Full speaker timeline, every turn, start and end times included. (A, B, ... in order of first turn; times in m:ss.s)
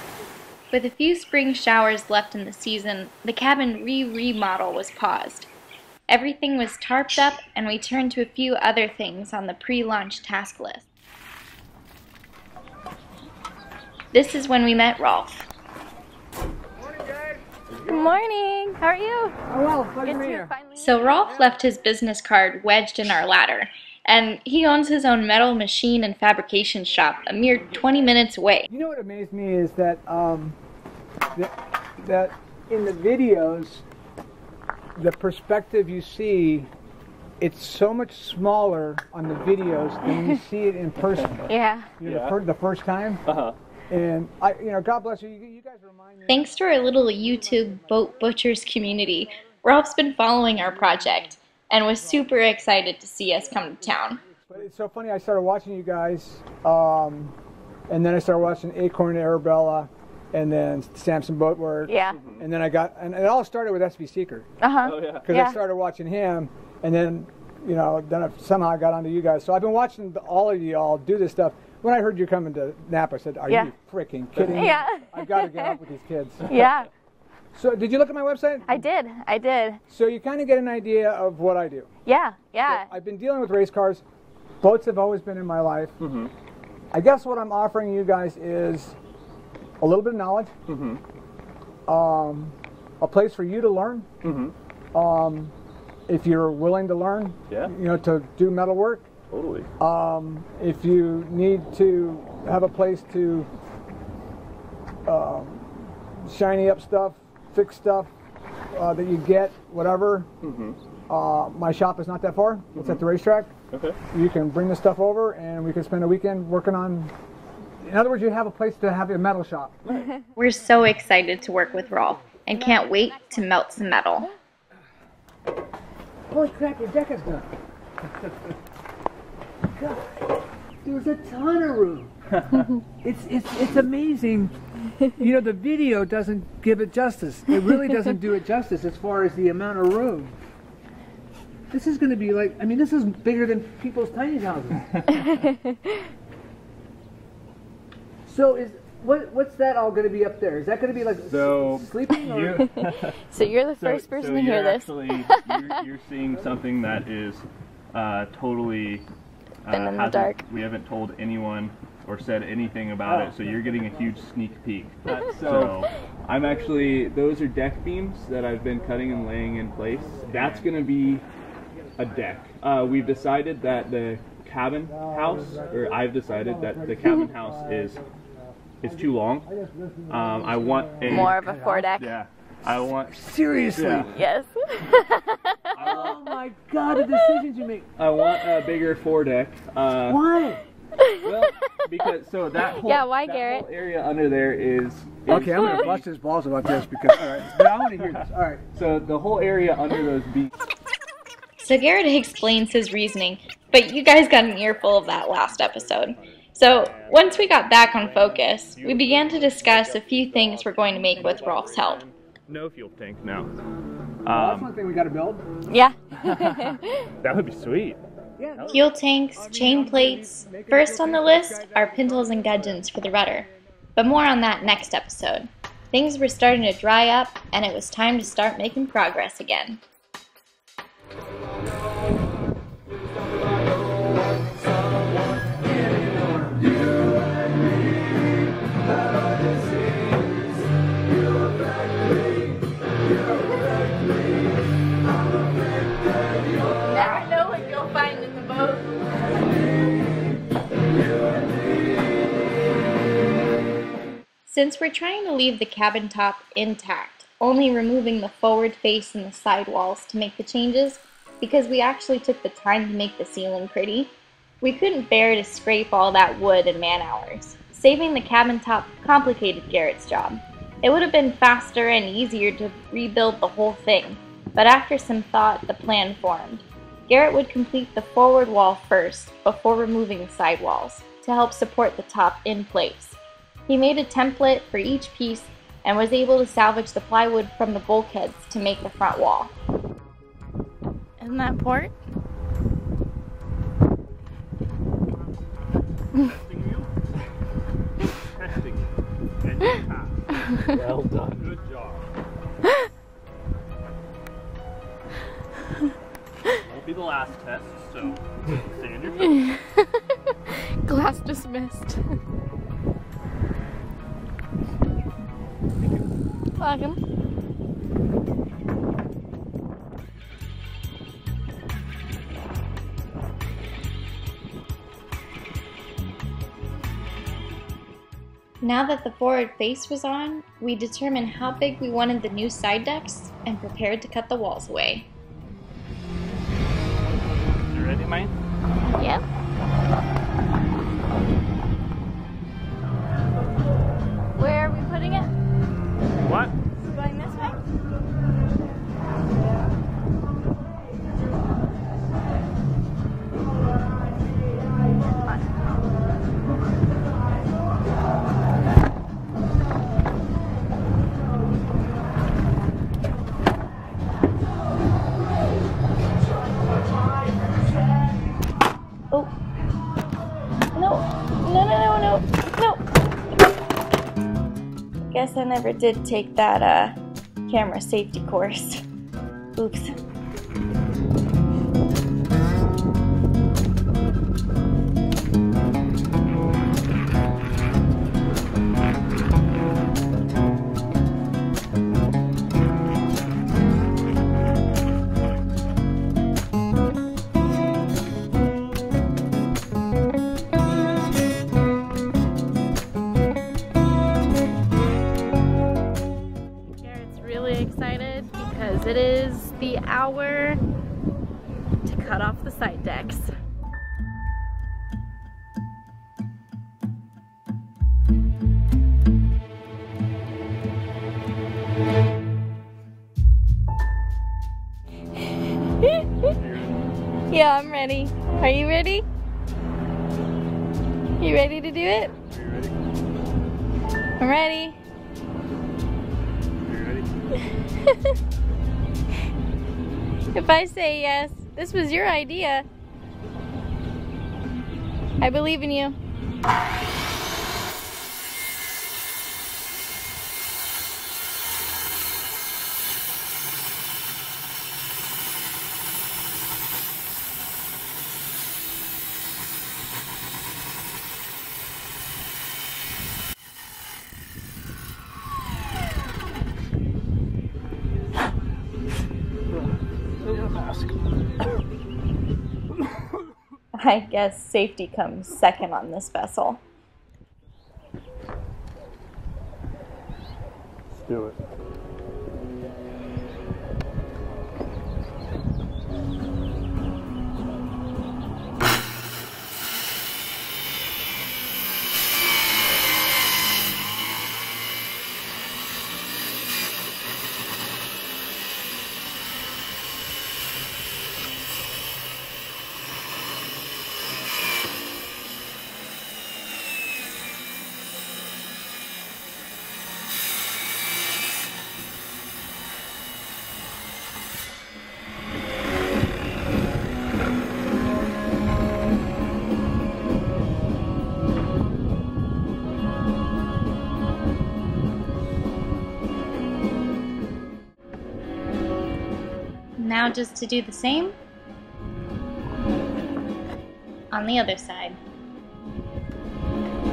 0:00.7-0:05.5 A
0:06.1-0:10.8 A
0:14.1-0:15.5 A
0:16.9-0:17.4 B
0:17.8-0:19.4 C
0:19.5-0:20.5 B
0:20.0-0:21.4 C
0:20.8-0:28.7 A
0:28.7-0:30.6 B
0:31.3-0:33.8 B
0:34.9-0:36.7 B
0:37.4-0:43.2 B
0:41.5-0:41.9 C
0:42.0-0:42.4 D
0:43.2-0:43.6 D
0:43.9-0:46.9 B
0:46.3-0:54.2 A
0:54.5-0:57.3 B
0:57.9-1:04.5 B
1:01.9-1:02.2 C
1:02.1-1:02.4 D
1:04.6-1:05.6 C
1:04.8-1:05.3 D
1:05.2-1:16.7 B
1:14.4-1:15.8 C
1:16.5-1:16.9 C
1:17.5-1:18.8 B
1:18.7-1:19.8 C
1:19.9-1:21.9 B
1:22.1-1:22.9 C
1:22.6-1:24.0 B
1:24.6-1:26.0 B
1:26.0-1:26.3 D
1:26.9-1:29.0 B
1:29.8-1:30.6 B
1:30.7-1:31.0 D
1:31.9-1:34.1 B
1:34.2-1:34.5 D
1:34.9-1:35.5 B
1:36.1-1:39.1 B
1:39.3-1:39.7 D
1:39.8-1:43.5 B
1:45.0-1:48.1 B
1:48.7-1:50.3 B
1:50.4-1:50.8 D
1:51.1-1:53.5 B
1:52.7-1:53.0 D
1:53.7-1:54.0 D
1:54.1-1:57.1 B
1:57.8-1:59.8 B
1:59.8-2:00.1 D
2:00.3-2:04.3 A
2:06.3-2:07.5 B
2:09.7-2:10.0 B
2:10.8-2:12.1 B
2:12.3-2:12.7 D
2:13.0-2:14.5 B
2:15.1-2:20.4 B
2:21.7-2:24.8 B
2:25.2-2:25.8 C
2:28.2-2:32.7 B
2:31.3-2:33.2 D
2:32.8-2:35.7 C
2:33.8-2:39.0 D
2:39.6-2:51.2 D
2:39.7-2:40.4 C
2:50.2-2:50.7 B
2:52.0-2:58.0 D
2:54.9-3:01.9 B
2:58.8-2:59.5 D
3:00.1-3:01.4 D
3:01.1-3:02.2 C
3:01.9-3:03.1 D
3:03.1-3:04.1 B
3:03.7-3:04.1 D
3:04.1-3:05.9 C
3:05.7-3:06.2 D
3:05.8-3:07.9 B
3:08.0-3:10.2 D
3:10.0-3:10.6 B
3:11.0-3:11.7 C
3:11.2-3:16.0 D
3:12.7-3:13.6 C
3:15.3-3:18.6 B
3:18.7-3:20.5 D
3:21.6-3:32.0 A
3:24.8-3:33.5 D
3:34.2-3:34.7 D
3:34.3-3:35.5 B
3:35.7-3:36.8 C
3:36.2-3:38.0 D
3:38.4-3:43.1 B
3:38.7-3:49.8 A
4:06.8-4:09.0 C
4:14.5-4:43.2 A
4:43.7-4:49.5 A
4:51.2-4:51.9 C
4:56.2-4:56.9 E
4:58.3-5:02.0 E
5:06.6-5:09.4 E
5:09.2-5:12.2 C
5:16.6-5:17.0 C
5:28.6-5:35.1 A
5:37.7-5:38.3 E
5:38.9-5:39.2 C
5:44.4-5:45.3 C
5:46.2-5:46.5 E
5:46.8-5:47.6 C
5:55.2-5:55.5 C
6:10.7-6:12.8 A
6:15.1-6:18.8 A
6:19.6-6:19.9 A
6:46.8-6:50.6 C
6:51.8-6:53.3 C
7:05.8-7:06.1 C
7:07.3-7:09.0 C
7:11.2-7:12.1 C
7:12.4-7:12.7 D
7:14.2-7:14.8 C
7:16.6-7:17.0 D
7:17.8-7:18.1 C
7:20.3-7:22.6 C
7:25.2-7:26.0 C
7:50.2-7:50.9 E
7:53.8-7:56.6 A
8:01.0-8:01.4 E
8:49.8-8:51.2 A
8:54.1-8:55.0 A